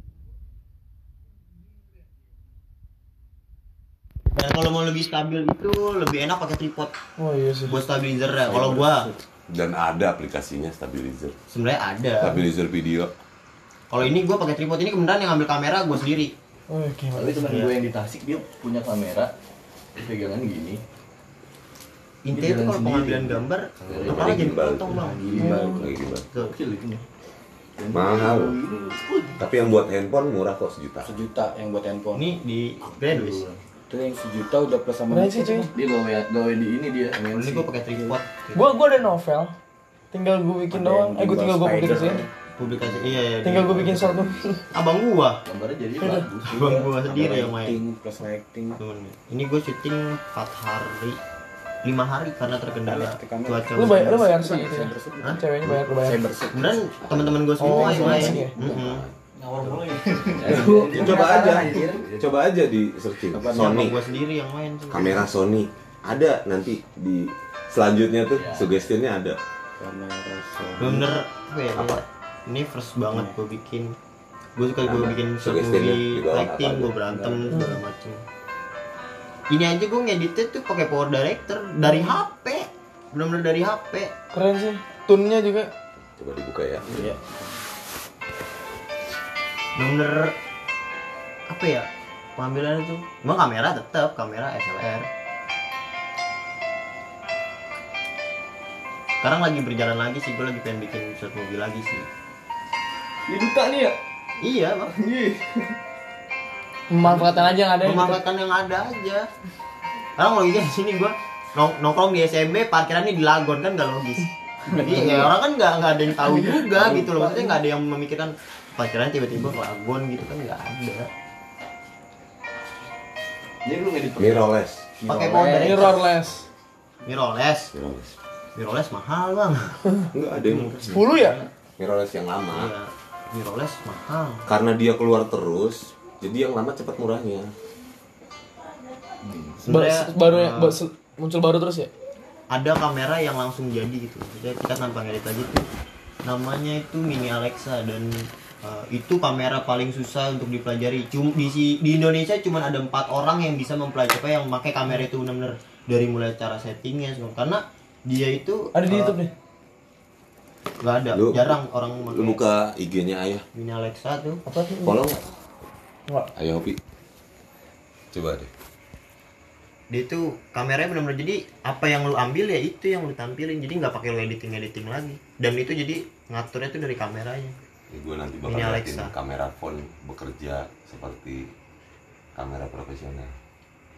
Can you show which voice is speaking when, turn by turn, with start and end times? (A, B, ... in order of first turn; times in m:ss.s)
0:04.3-0:06.9 A
0:07.2-0:07.8 B
0:07.7-0:09.1 A
0:08.5-0:08.9 C
0:08.5-0:08.9 D
0:09.5-0:11.4 C
0:11.5-0:12.4 A
0:12.2-0:13.1 C
0:13.9-0:16.3 A
0:16.7-0:17.5 B
0:17.1-0:19.3 E
0:17.4-0:17.7 A
0:20.0-0:20.8 E
0:22.2-0:25.7 A
0:22.3-0:27.0 E
0:24.0-0:25.0 C
0:24.9-0:25.9 D
0:25.4-0:25.8 B
0:25.7-0:26.3 C
0:26.3-0:26.5 A
0:27.8-0:29.9 E
0:27.9-0:28.6 C
0:29.4-0:31.2 C
0:31.0-0:32.4 D
0:32.1-0:33.5 A
0:33.0-0:33.6 E
0:33.9-0:35.7 D
0:35.1-0:35.7 B
0:35.7-0:37.2 E
0:37.1-0:38.2 D
0:37.3-0:38.7 A
0:38.5-0:39.5 B
0:40.1-0:42.2 B
0:40.7-0:44.4 D
0:42.6-0:45.4 A
0:43.4-0:44.6 B
0:45.4-0:46.9 E
0:46.5-0:47.8 A
0:46.7-0:48.8 D
0:48.8-0:51.2 A
0:51.8-0:54.2 A
0:52.8-0:58.5 D
0:53.7-0:56.3 B
0:56.5-0:59.0 A
0:57.0-0:57.4 C
0:57.6-0:58.5 B
0:58.5-0:59.2 C
0:59.4-1:02.3 E
0:59.6-1:02.0 D
1:01.0-1:04.0 C
1:03.3-1:04.0 D
1:03.5-1:05.2 A
1:04.9-1:09.4 C
1:08.3-1:08.9 E
1:09.8-1:11.1 D
1:10.8-1:14.0 A
1:11.7-1:12.0 C
1:14.6-1:18.2 A
1:14.8-1:16.9 C
1:17.1-1:17.5 D
1:17.5-1:17.8 B
1:19.5-1:24.1 A
1:21.8-1:22.1 B
1:24.3-1:25.7 B
1:26.0-1:27.0 C
1:26.8-1:27.6 D
1:29.8-1:30.3 A
1:31.5-1:35.1 A
1:39.2-1:42.1 A
1:43.3-1:44.0 E
1:44.4-1:44.9 A
1:44.9-1:45.7 E
1:46.9-1:48.2 B
1:47.8-1:49.3 A
1:50.2-2:01.1 A
1:54.7-1:55.3 D
1:56.3-1:57.6 D
2:03.6-2:04.5 E
2:04.2-2:04.9 C
2:05.0-2:05.9 D
2:05.1-2:06.0 A
2:05.6-2:06.4 B
2:07.0-2:07.7 A
2:07.7-2:08.2 C
2:08.5-2:09.8 A
2:10.1-2:11.1 C
2:10.4-2:10.8 A
2:10.9-2:11.4 B
2:11.8-2:12.7 C
2:12.5-2:14.4 A
2:14.4-2:17.5 C
2:19.2-2:19.6 E
2:19.6-2:20.8 A
2:19.7-2:21.9 B
2:22.5-2:25.6 A
2:26.2-2:39.2 A
2:38.7-2:39.3 B
2:40.8-2:42.4 A
2:41.1-2:43.5 C
2:43.5-2:44.4 A
2:44.4-2:45.0 B
2:44.8-2:45.3 C
2:46.4-2:46.8 C
2:48.1-2:48.5 C
2:49.9-2:57.5 A
2:57.9-3:01.5 C
2:58.4-2:59.1 A
3:02.4-3:03.3 C